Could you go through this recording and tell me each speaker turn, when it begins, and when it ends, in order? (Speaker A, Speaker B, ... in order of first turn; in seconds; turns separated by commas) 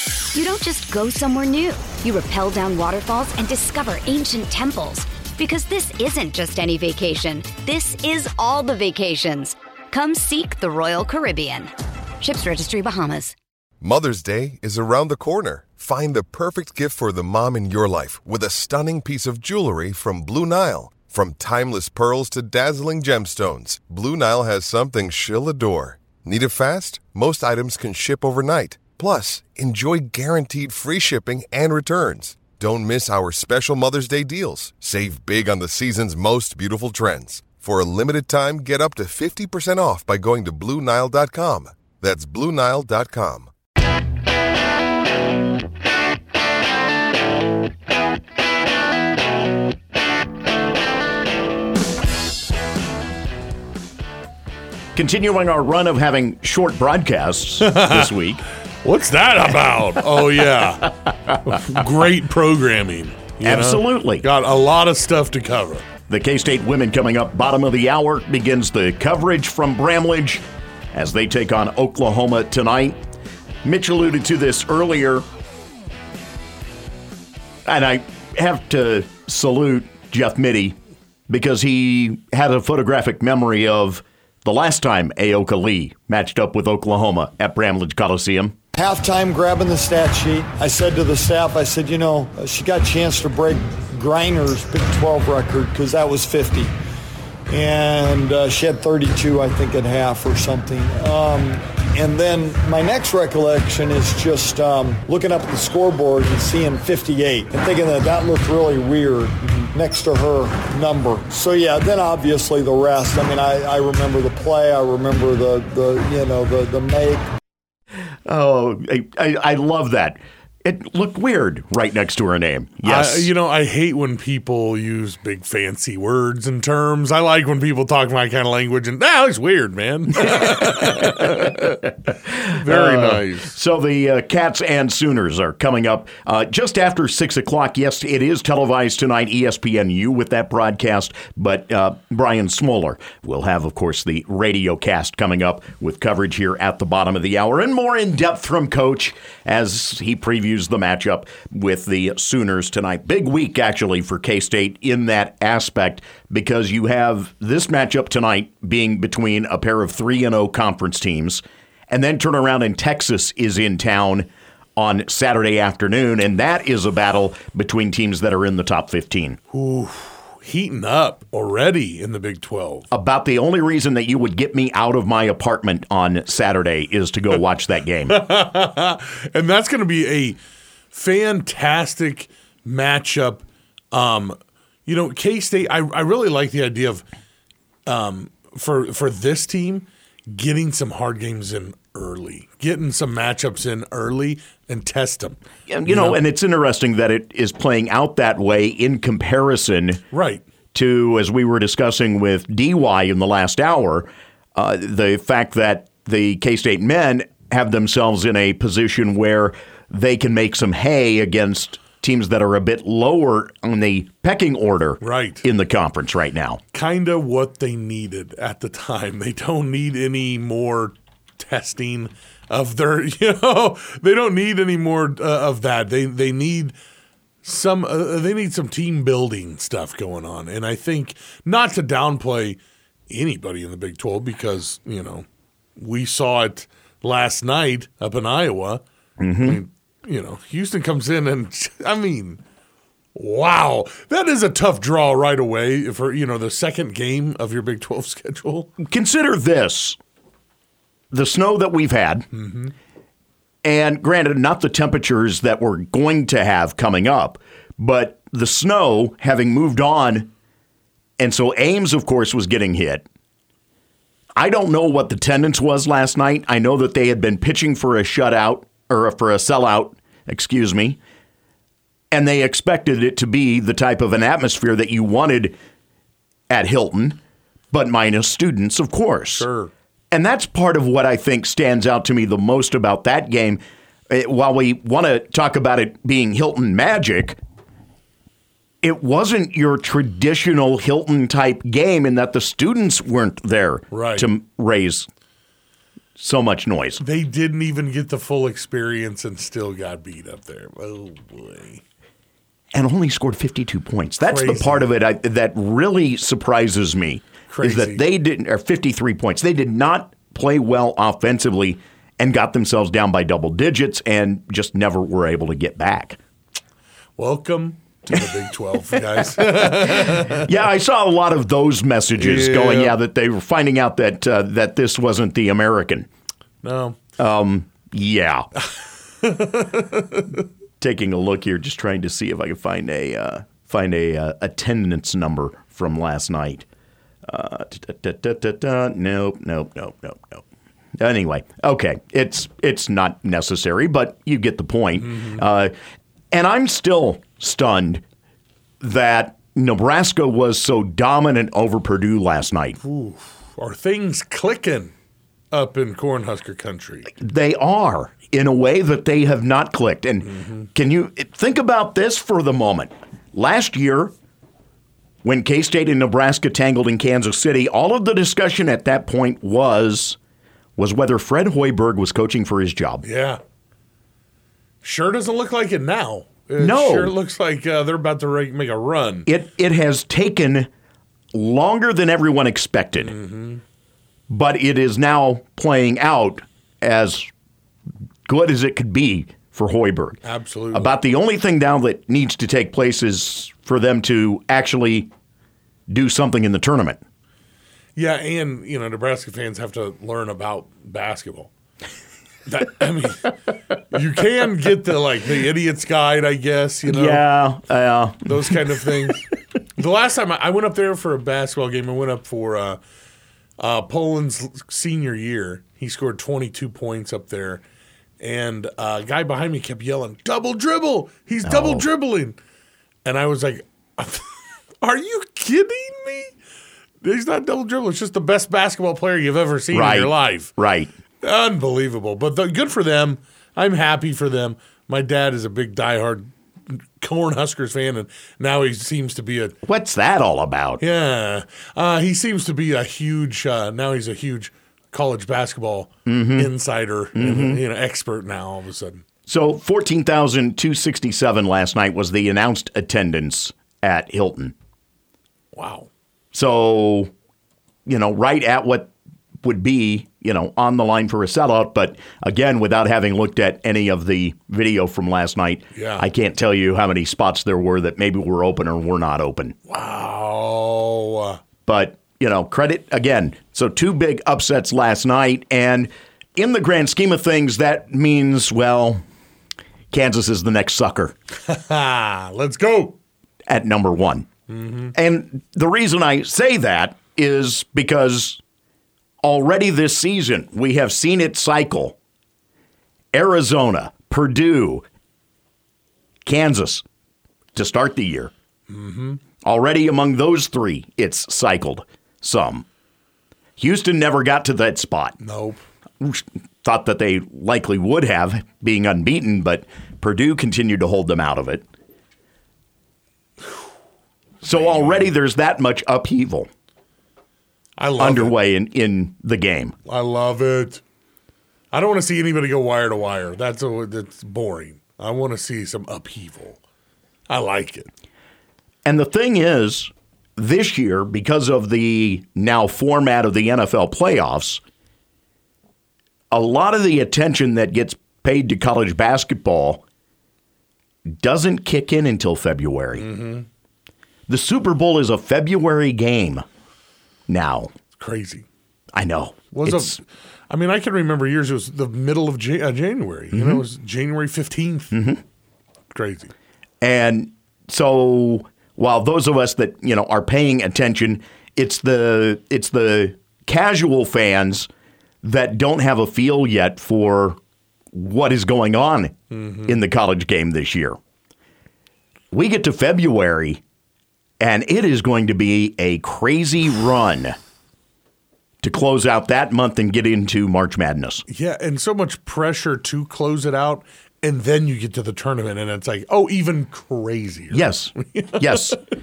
Speaker A: 0.3-13.3, Speaker B: 13.8-43.5, Speaker C: 54.9-58.4, Speaker D: 57.6-58.1, Speaker D: 58.8-65.8, Speaker C: 63.4-64.2, Speaker C: 66.1-73.0, Speaker C: 73.6-75.2, Speaker C: 77.7-80.7, Speaker C: 81.3-88.5, Speaker E: 88.7-96.7, Speaker E: 97.5-117.3, Speaker C: 118.3-123.3, Speaker D: 122.8-133.5, Speaker C: 130.7-131.3, Speaker C: 132.4-169.4, Speaker D: 169.5-172.8, Speaker C: 172.9-178.2, Speaker D: 178.1-180.4, Speaker D: 180.9-187.0, Speaker D: 187.9-196.2, Speaker C: 195.7-200.0, Speaker D: 200.1-200.4, Speaker C: 200.7-216.6, Speaker D: 215.0-215.4, Speaker D: 216.7-226.7, Speaker D: 227.4-232.6, Speaker D: 233.1-235.2, Speaker D: 235.8-238.8, Speaker C: 239.2-239.6, Speaker D: 239.4-242.4, Speaker D: 243.1-248.7, Speaker C: 248.8-250.0, Speaker C: 251.1-252.2, Speaker D: 252.3-252.7, Speaker C: 253.6-260.3, Speaker C: 261.2-263.1, Speaker C: 264.4-271.0, Speaker C: 272.1-275.6, Speaker C: 276.5-277.2, Speaker C: 277.7-279.5, Speaker D: 279.3-279.7, Speaker C: 280.1-283.6, Speaker C: 284.1-287.4, Speaker C: 288.8-295.1, Speaker D: 293.9-294.3, Speaker C: 296.2-297.0, Speaker D: 297.0-301.8, Speaker C: 302.7-316.2, Speaker D: 304.2-304.9, Speaker D: 307.5-308.0, Speaker D: 317.2-320.4, Speaker C: 320.4-326.1, Speaker D: 322.2-323.0, Speaker D: 326.6-327.0, Speaker C: 327.2-328.5, Speaker D: 329.2-330.4, Speaker C: 330.8-336.6, Speaker C: 337.3-340.4, Speaker C: 341.0-345.7, Speaker D: 345.1-345.4, Speaker C: 346.3-348.0, Speaker C: 348.8-352.8, Speaker D: 352.8-354.9, Speaker D: 355.5-357.1, Speaker C: 357.1-364.1, Speaker C: 365.2-370.2, Speaker C: 370.8-373.0, Speaker D: 373.0-373.4, Speaker D: 374.8-379.3, Speaker C: 376.6-377.1, Speaker C: 379.2-380.7, Speaker C: 381.3-383.1, Speaker D: 383.0-383.6, Speaker C: 384.3-387.3, Speaker C: 388.3-390.2, Speaker D: 390.2-390.9, Speaker C: 390.7-395.1, Speaker C: 395.9-397.0, Speaker D: 397.9-401.5, Speaker D: 402.5-407.2, Speaker C: 406.9-408.6, Speaker D: 408.2-412.8, Speaker D: 413.6-417.6, Speaker D: 418.2-422.4, Speaker C: 421.4-421.8, Speaker D: 423.0-424.3, Speaker D: 424.8-426.3, Speaker D: 427.0-430.5, Speaker C: 429.7-430.9, Speaker D: 431.2-439.5, Speaker C: 439.6-440.8, Speaker D: 440.8-449.0, Speaker C: 446.1-446.5, Speaker C: 447.1-447.6, Speaker C: 449.3-454.5, Speaker D: 455.5-455.9, Speaker C: 456.3-457.1, Speaker C: 457.9-469.6, Speaker D: 465.7-466.1, Speaker D: 469.7-471.4, Speaker C: 471.6-479.0, Speaker C: 479.9-481.1, Speaker D: 481.5-483.0, Speaker C: 483.5-484.3, Speaker D: 484.5-484.9, Speaker C: 484.9-488.4, Speaker C: 489.2-492.0, Speaker C: 493.1-494.8, Speaker C: 496.2-496.8, Speaker C: 497.5-498.3, Speaker D: 498.7-499.2, Speaker C: 499.4-502.6, Speaker C: 503.6-505.2, Speaker D: 505.2-505.6, Speaker C: 506.0-511.6, Speaker D: 514.4-515.1, Speaker C: 514.4-516.5, Speaker D: 517.8-518.4, Speaker C: 518.0-519.7, Speaker D: 519.9-520.8, Speaker D: 521.7-526.6, Speaker D: 527.3-527.9, Speaker C: 528.8-534.6, Speaker C: 536.3-539.8, Speaker C: 541.1-543.1, Speaker D: 543.0-543.5, Speaker C: 544.3-546.4, Speaker C: 547.3-547.7, Speaker D: 548.0-548.5, Speaker C: 548.9-550.0, Speaker D: 549.5-554.9, Speaker C: 553.3-553.6, Speaker C: 554.9-555.2, Speaker D: 555.9-556.3, Speaker C: 556.8-564.7, Speaker C: 565.2-567.4, Speaker C: 567.9-571.0, Speaker D: 569.3-569.7, Speaker C: 572.3-573.6, Speaker C: 574.4-577.3, Speaker C: 578.6-581.2, Speaker D: 581.3-588.7, Speaker C: 587.5-588.8